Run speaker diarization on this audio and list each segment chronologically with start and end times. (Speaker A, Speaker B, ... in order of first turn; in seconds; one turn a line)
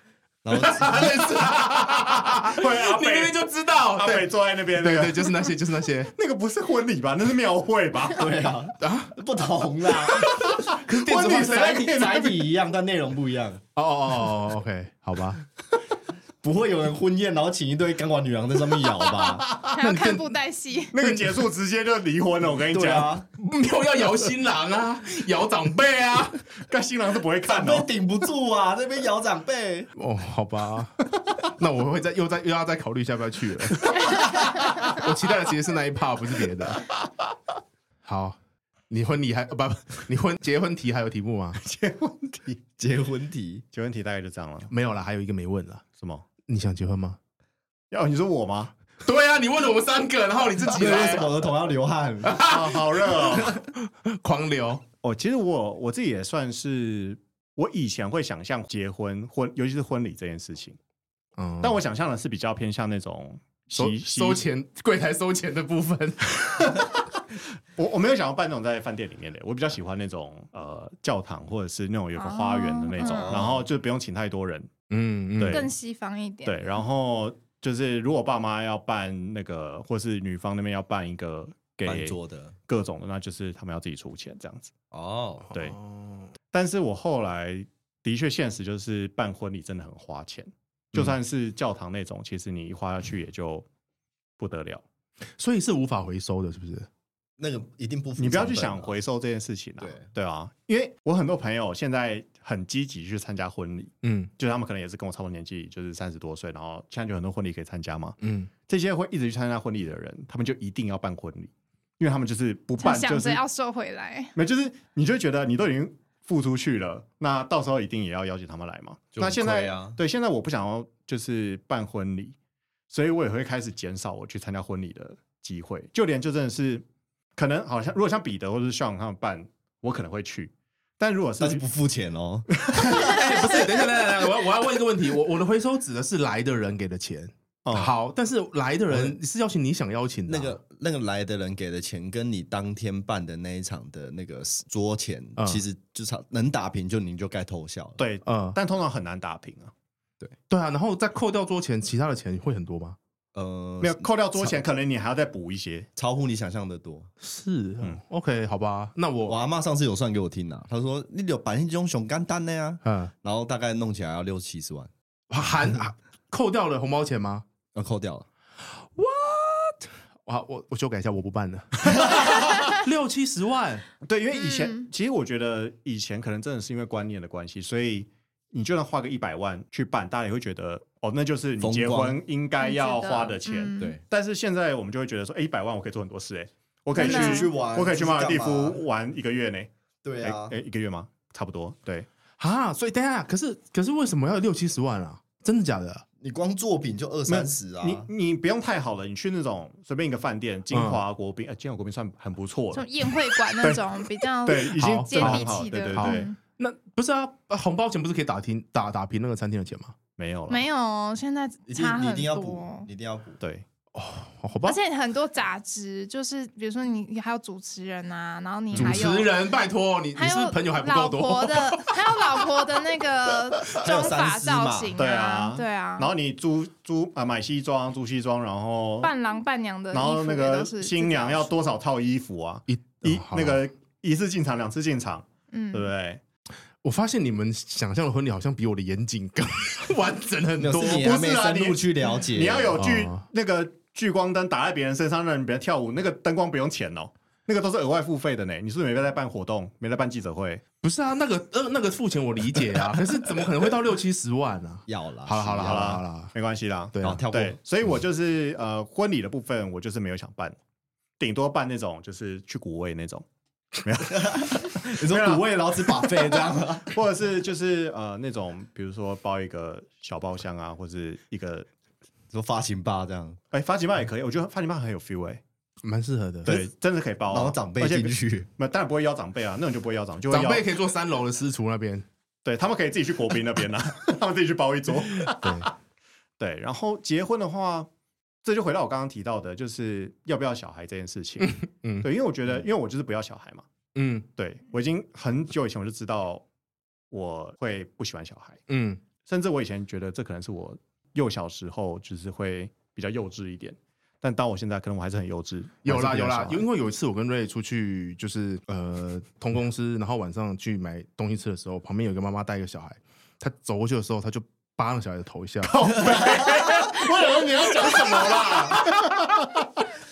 Speaker A: 0.4-1.1
Speaker B: 0.5-6.1
Speaker C: 2.5-5.5
Speaker C: 6.1-8.3
Speaker A: 8.2-10.4
Speaker B: 8.8-9.1
Speaker B: 10.1-11.8
Speaker C: 10.2-12.5
Speaker A: 11.4-13.6
Speaker B: 13.8-15.4
Speaker A: 16.4-19.4
Speaker C: 19.2-19.7
Speaker D: 19.7-20.9
Speaker B: 19.8-20.3
Speaker C: 20.9-23.1
Speaker A: 22.7-23.2
Speaker B: 23.4-26.4
Speaker C: 26.6-27.9
Speaker A: 27.5-29.9
Speaker B: 30.0-36.9
Speaker B: 38.0-38.4
Speaker B: 38.9-41.6
Speaker C: 41.6-42.6
Speaker A: 42.8-43.6
Speaker C: 43.7-44.7
Speaker B: 44.7-45.8
Speaker C: 46.0-46.2
Speaker B: 46.5-47.2
Speaker C: 47.9-48.7
Speaker B: 49.0-51.5
Speaker A: 50.7-52.4
Speaker B: 52.2-54.8
Speaker C: 52.4-53.6
Speaker C: 55.0-60.8
Speaker B: 61.4-61.8
Speaker C: 61.6-64.4
Speaker B: 63.7-66.8
Speaker C: 67.8-74.7
Speaker D: 72.2-73.5
Speaker A: 73.0-73.7
Speaker B: 74.9-75.7
Speaker C: 75.3-75.7
Speaker D: 75.5-76.6
Speaker C: 76.4-82.2
Speaker A: 81.8-82.5
Speaker C: 82.7-84.7
Speaker A: 84.9-85.5
Speaker C: 85.5-85.8
Speaker B: 85.8-86.2
Speaker C: 86.5-93.7
Speaker C: 94.4-94.8
Speaker B: 95.4-96.9
Speaker A: 97.4-98.9
Speaker C: 98.2-108.2
Speaker A: 99.8-100.1
Speaker B: 104.0-104.3
Speaker B: 108.2-108.5
Speaker C: 108.7-113.4
Speaker D: 112.8-114.3
Speaker C: 114.3-122.3
Speaker A: 119.1-120.0
Speaker C: 122.9-126.8
Speaker C: 127.3-131.6
Speaker A: 131.4-133.1
Speaker C: 132.6-133.4
Speaker B: 132.9-140.6
Speaker C: 137.6-137.9
Speaker A: 138.9-139.2
Speaker A: 140.3-148.0
Speaker B: 145.4-145.6
Speaker C: 148.0-149.7
Speaker B: 148.2-148.6
Speaker B: 150.5-153.0
Speaker A: 153.3-154.1
Speaker C: 153.8-155.9
Speaker A: 155.9-157.1
Speaker B: 157.2-159.4
Speaker A: 159.3-164.9
Speaker B: 162.8-163.1
Speaker B: 165.3-167.4
Speaker A: 167.7-168.2
Speaker B: 169.0-169.7
Speaker B: 170.2-173.8
Speaker C: 171.9-172.4
Speaker C: 174.0-189.7
Speaker D: 174.3-174.8
Speaker A: 181.6-182.2
Speaker D: 182.6-183.9
Speaker D: 186.9-187.5
Speaker A: 186.9-188.8
Speaker A: 190.0-190.5
Speaker C: 190.2-192.1
Speaker B: 192.4-196.0
Speaker A: 196.2-198.1
Speaker C: 197.3-202.9
Speaker B: 200.7-201.0
Speaker D: 202.7-206.4
Speaker C: 203.6-203.8
Speaker C: 204.4-206.3
Speaker B: 204.8-209.9
Speaker C: 210.2-210.6
Speaker D: 210.5-212.8
Speaker A: 211.7-213.4
Speaker C: 213.4-213.7
Speaker B: 213.9-214.8
Speaker D: 214.6-219.3
Speaker C: 218.7-219.0
Speaker B: 218.7-222.5
Speaker D: 220.2-226.1
Speaker A: 223.7-224.9
Speaker C: 224.9-229.1
Speaker D: 229.0-231.5
Speaker C: 229.9-236.2
Speaker B: 232.7-233.6
Speaker D: 235.5-235.9
Speaker B: 236.8-241.0
Speaker A: 240.6-242.8
Speaker C: 240.9-250.6
Speaker B: 242.7-243.2
Speaker B: 250.8-256.3
Speaker A: 254.9-256.0
Speaker C: 255.6-260.6
Speaker B: 257.0-257.2
Speaker A: 257.0-257.6
Speaker C: 261.2-263.2
Speaker C: 263.8-271.7
Speaker A: 264.1-266.9
Speaker A: 272.3-273.4
Speaker C: 273.5-275.4
Speaker B: 275.8-276.6
Speaker C: 276.4-280.6
Speaker A: 277.3-278.5
Speaker B: 280.3-282.0
Speaker C: 282.4-285.7
Speaker B: 285.2-285.7
Speaker C: 286.4-287.9
Speaker C: 288.4-293.7
Speaker B: 291.4-292.1
Speaker B: 293.9-294.3
Speaker C: 294.4-296.4
Speaker C: 297.1-298.6
Speaker B: 298.7-299.0
Speaker C: 299.2-306.6
Speaker B: 305.8-316.4
Speaker C: 315.7-319.7
Speaker B: 318.4-318.9